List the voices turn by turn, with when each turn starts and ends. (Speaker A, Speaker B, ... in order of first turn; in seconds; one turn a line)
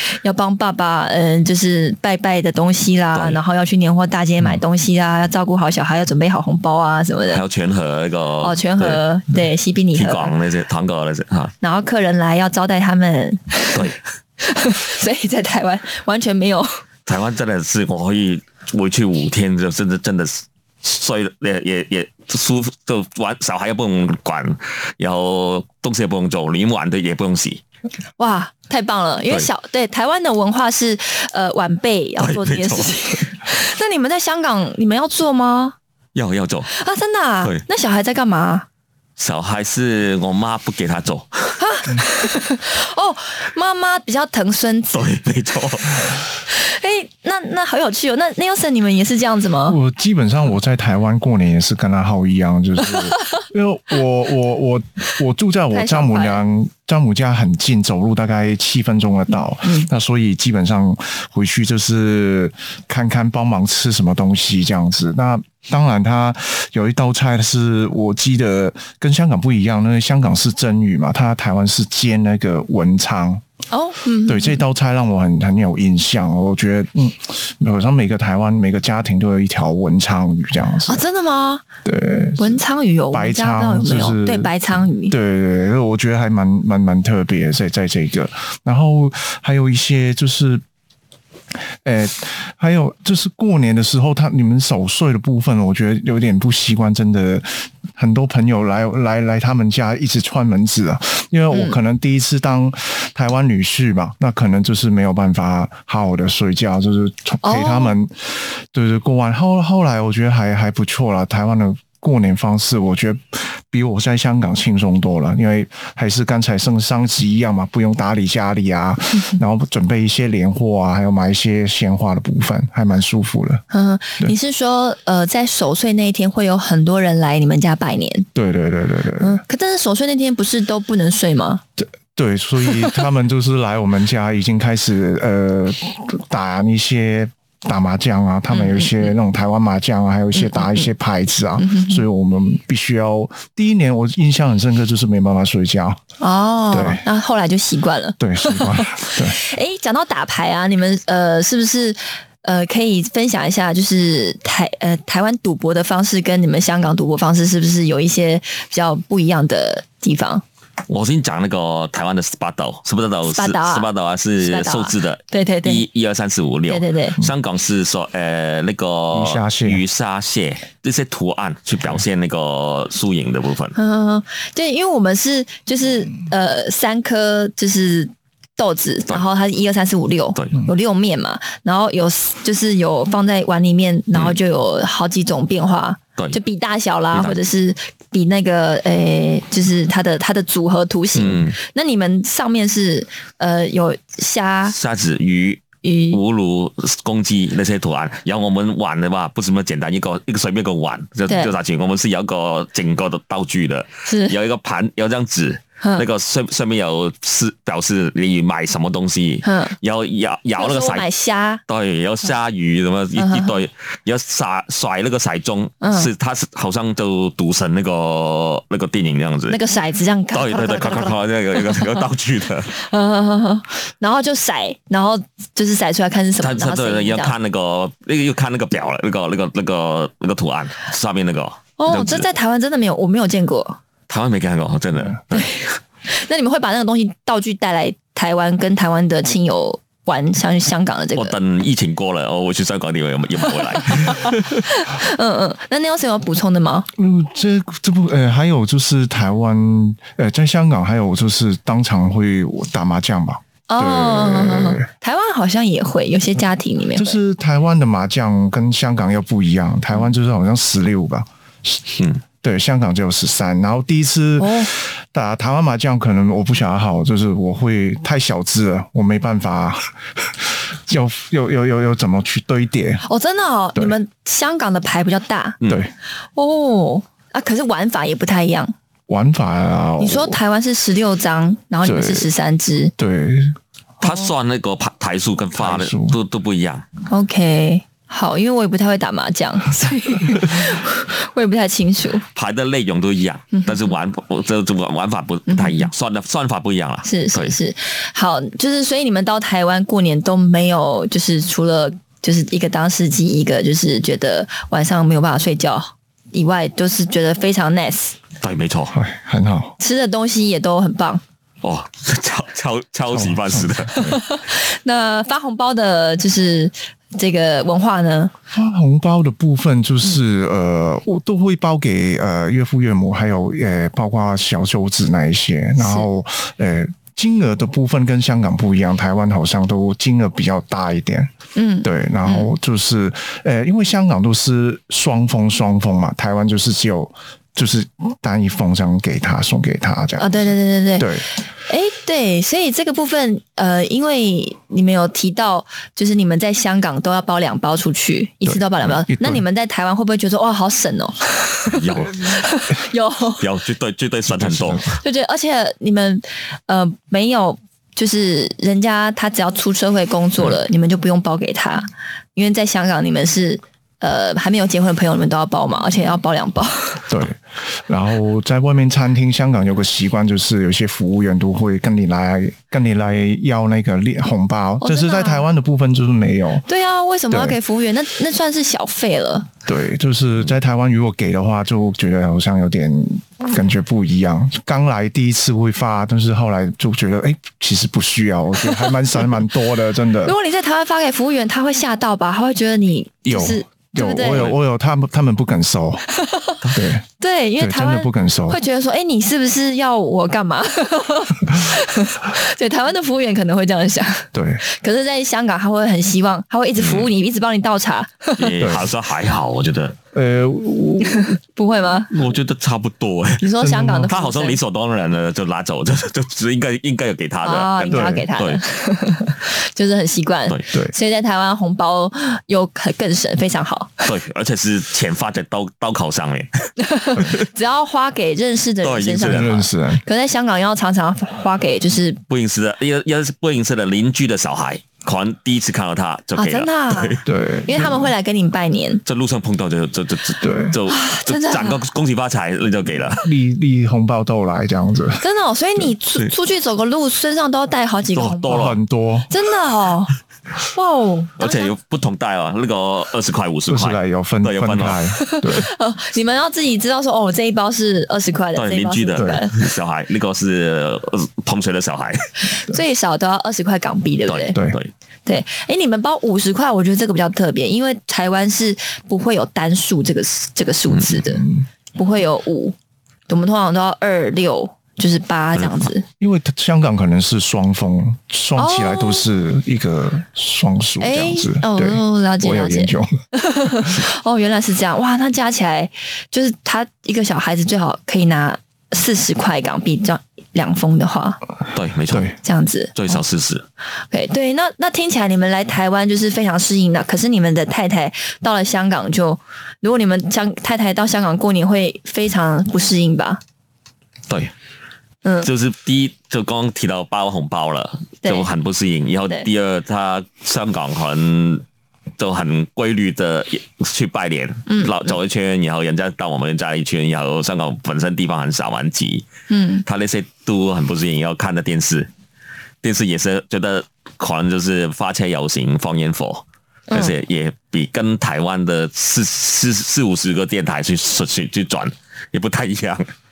Speaker A: 0.2-7.4
Speaker B: 7.3-9.0
Speaker A: 8.4-10.3
Speaker B: 9.9-11.5
Speaker A: 11.6-16.8
Speaker B: 17.1-27.6
Speaker A: 28.2-35.7
Speaker B: 32.2-32.9
Speaker B: 36.1-36.7
Speaker A: 36.7-38.6
Speaker B: 39.2-41.6
Speaker A: 41.6-45.0
Speaker B: 44.9-46.1
Speaker A: 46.5-49.8
Speaker C: 49.6-73.4
Speaker A: 55.7-56.4
Speaker A: 59.6-59.9
Speaker A: 73.7-74.6
Speaker C: 74.3-81.0
Speaker A: 80.9-81.6
Speaker C: 81.8-84.5
Speaker A: 82.4-85.2
Speaker C: 85.1-90.6
Speaker C: 91.5-123.6
Speaker A: 101.5-101.8
Speaker A: 107.4-107.9
Speaker A: 123.7-128.3
Speaker C: 128.3-129.4
Speaker A: 129.2-131.6
Speaker C: 131.8-146.0
Speaker A: 138.5-139.1
Speaker A: 140.3-140.9
Speaker A: 141.6-142.0
Speaker A: 146.2-160.4
Speaker C: 146.7-147.0
Speaker C: 148.2-149.4
Speaker B: 160.9-173.7
Speaker A: 163.3-163.9
Speaker A: 164.4-165.8
Speaker A: 166.7-167.2
Speaker C: 169.1-169.8
Speaker A: 173.8-194.7
Speaker B: 191.1-191.6
Speaker B: 194.7-211.1
Speaker A: 195.8-196.2
Speaker A: 201.3-201.5
Speaker A: 204.0-204.3
Speaker A: 209.4-209.7
Speaker A: 210.6-211.6
Speaker B: 211.7-219.6
Speaker A: 213.2-213.5
Speaker A: 215.8-216.1
Speaker A: 219.5-221.2
Speaker B: 220.3-222.7
Speaker A: 222.7-227.3
Speaker B: 226.4-232.3
Speaker A: 231.8-233.8
Speaker B: 234.1-235.5
Speaker A: 235.3-241.3
Speaker B: 241.2-244.6
Speaker A: 244.1-246.8
Speaker C: 246.9-254.8
Speaker A: 253.7-257.2
Speaker C: 256.9-273.0
Speaker A: 264.4-264.7
Speaker A: 273.0-275.6
Speaker C: 275.7-275.9
Speaker A: 276.4-278.7
Speaker C: 279.1-280.4
Speaker A: 280.0-282.9
Speaker C: 281.8-282.3
Speaker C: 283.0-283.6
Speaker B: 284.0-286.9
Speaker C: 285.6-286.1
Speaker A: 287.1-292.2
Speaker B: 292.3-297.6
Speaker A: 293.5-293.9
Speaker A: 295.5-295.9
Speaker A: 297.0-308.1
Speaker B: 308.4-308.9
Speaker C: 308.9-309.7
Speaker A: 309.8-311.2
Speaker B: 311.6-314.0
Speaker C: 313.1-314.2
Speaker A: 314.0-318.3
Speaker C: 318.5-331.3
Speaker A: 325.8-326.1
Speaker A: 331.6-332.5
Speaker C: 331.8-341.3
Speaker A: 340.2-341.1
Speaker A: 341.7-353.4
Speaker C: 348.4-349.4
Speaker B: 351.8-352.3
Speaker B: 353.4-354.8
Speaker C: 354.3-355.0
Speaker A: 355.0-367.0
Speaker C: 367.1-376.6
Speaker A: 374.8-375.4
Speaker A: 376.7-379.5
Speaker C: 377.3-377.6
Speaker C: 379.6-390.3
Speaker A: 390.2-394.5
Speaker C: 393.2-396.0
Speaker A: 396.2-396.6
Speaker C: 396.7-397.0
Speaker A: 397.2-408.5
Speaker C: 397.6-398.6
Speaker C: 404.3-404.6
Speaker B: 406.8-407.1
Speaker B: 408.4-409.9
Speaker C: 410.1-411.4
Speaker A: 411.1-412.1
Speaker B: 412.1-413.5
Speaker A: 413.4-414.6
Speaker C: 413.6-414.1
Speaker B: 414.0-418.6
Speaker A: 417.4-424.1
Speaker C: 417.9-418.3
Speaker B: 424.0-426.5
Speaker A: 426.8-432.2
Speaker B: 428.8-429.5
Speaker C: 429.2-430.0
Speaker B: 432.3-437.2
Speaker A: 436.4-439.0
Speaker C: 437.2-438.1
Speaker B: 439.1-443.2
Speaker C: 440.4-440.8
Speaker A: 440.9-441.8
Speaker C: 443.2-445.2
Speaker A: 445.2-448.7
Speaker B: 448.1-448.8
Speaker C: 448.5-449.3
Speaker A: 449.3-450.1
Speaker A: 450.7-451.7
Speaker B: 451.4-455.1
Speaker C: 453.7-455.7
Speaker A: 455.2-459.6
Speaker B: 458.6-462.3
Speaker C: 459.1-459.4
Speaker A: 462.6-464.5
Speaker B: 464.3-464.9
Speaker C: 464.5-464.8
Speaker A: 465.2-471.4
Speaker C: 471.2-471.6
Speaker A: 471.9-472.7
Speaker A: 473.3-476.0
Speaker B: 475.6-475.8
Speaker C: 476.2-483.1
Speaker A: 478.6-479.2
Speaker A: 481.0-491.4
Speaker B: 491.7-492.3
Speaker C: 492.1-492.4
Speaker A: 492.4-493.2
Speaker B: 492.9-493.6
Speaker A: 494.1-503.4
Speaker A: 505.2-505.5
Speaker B: 505.4-511.6
Speaker B: 512.2-519.3
Speaker A: 514.7-514.9
Speaker A: 519.5-519.8
Speaker B: 519.8-522.1
Speaker B: 522.8-533.1